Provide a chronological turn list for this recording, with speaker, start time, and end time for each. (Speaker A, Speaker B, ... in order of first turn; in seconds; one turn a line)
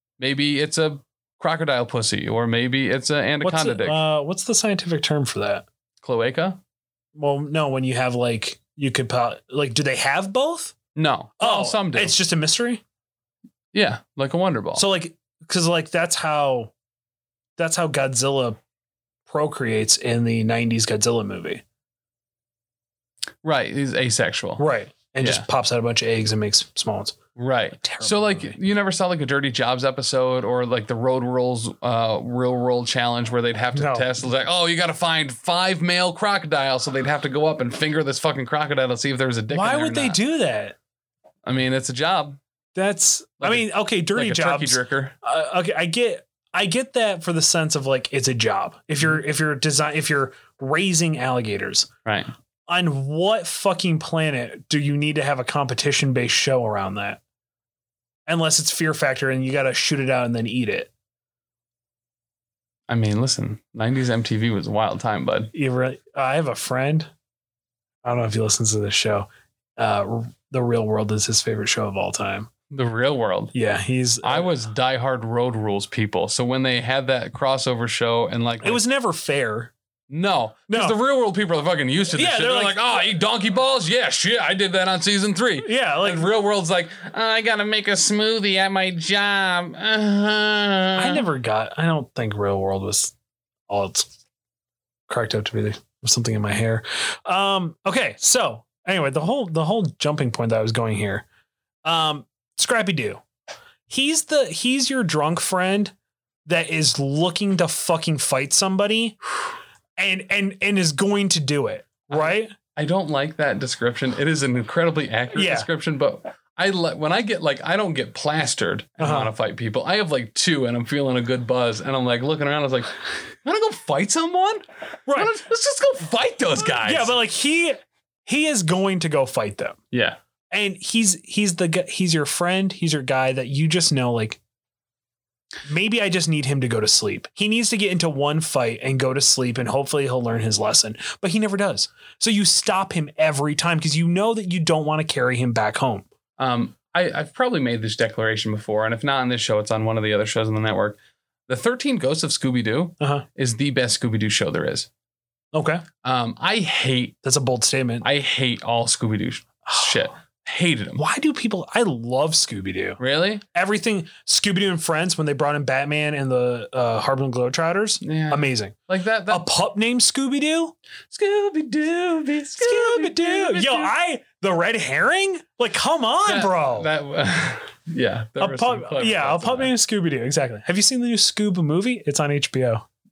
Speaker A: 0.2-4.0
Speaker B: 3.4-5.7
Speaker A: 6.0-6.6
Speaker B: 7.2-10.8
Speaker A: 10.9-12.2
Speaker B: 11.4-12.8
Speaker A: 13.7-14.9
Speaker B: 14.8-16.7
Speaker B: 17.6-18.6
Speaker B: 19.3-21.6
Speaker A: 23.4-24.6
Speaker B: 24.6-27.2
Speaker A: 25.2-25.5
Speaker A: 27.4-40.2
Speaker B: 27.8-28.6
Speaker B: 33.7-34.1
Speaker B: 39.5-40.8
Speaker A: 41.5-42.4
Speaker B: 42.8-51.9
Speaker A: 43.4-45.1
Speaker A: 52.0-52.3
Speaker B: 52.7-57.2
Speaker B: 58.3-60.9
Speaker A: 62.9-65.5
Speaker B: 65.5-67.1
Speaker B: 68.0-72.5
Speaker A: 72.7-73.5
Speaker B: 73.5-74.5
Speaker A: 74.2-78.8
Speaker B: 78.6-79.7
Speaker A: 80.1-91.2
Speaker B: 80.7-81.0
Speaker B: 82.2-83.0
Speaker B: 85.6-86.3
Speaker B: 91.0-93.1
Speaker B: 93.7-94.1
Speaker B: 95.1-101.2
Speaker B: 101.8-103.2
Speaker B: 103.9-105.9
Speaker B: 106.5-109.2
Speaker B: 110.0-112.5
Speaker A: 112.1-124.6
Speaker B: 115.3-115.7
Speaker B: 119.0-119.3
Speaker B: 125.1-125.3
Speaker A: 125.1-127.1
Speaker B: 126.6-129.8
Speaker A: 129.9-130.2
Speaker B: 130.5-134.4
Speaker B: 135.7-146.1
Speaker A: 146.4-154.9
Speaker B: 153.0-153.2
Speaker B: 155.5-155.8
Speaker A: 156.0-157.2
Speaker B: 157.2-158.1
Speaker A: 158.0-161.0
Speaker B: 159.7-160.0
Speaker B: 161.0-168.8
Speaker A: 163.0-163.4
Speaker A: 168.0-169.4
Speaker B: 169.3-170.8
Speaker A: 171.1-173.9
Speaker B: 172.6-176.9
Speaker A: 176.3-179.7
Speaker B: 178.4-182.8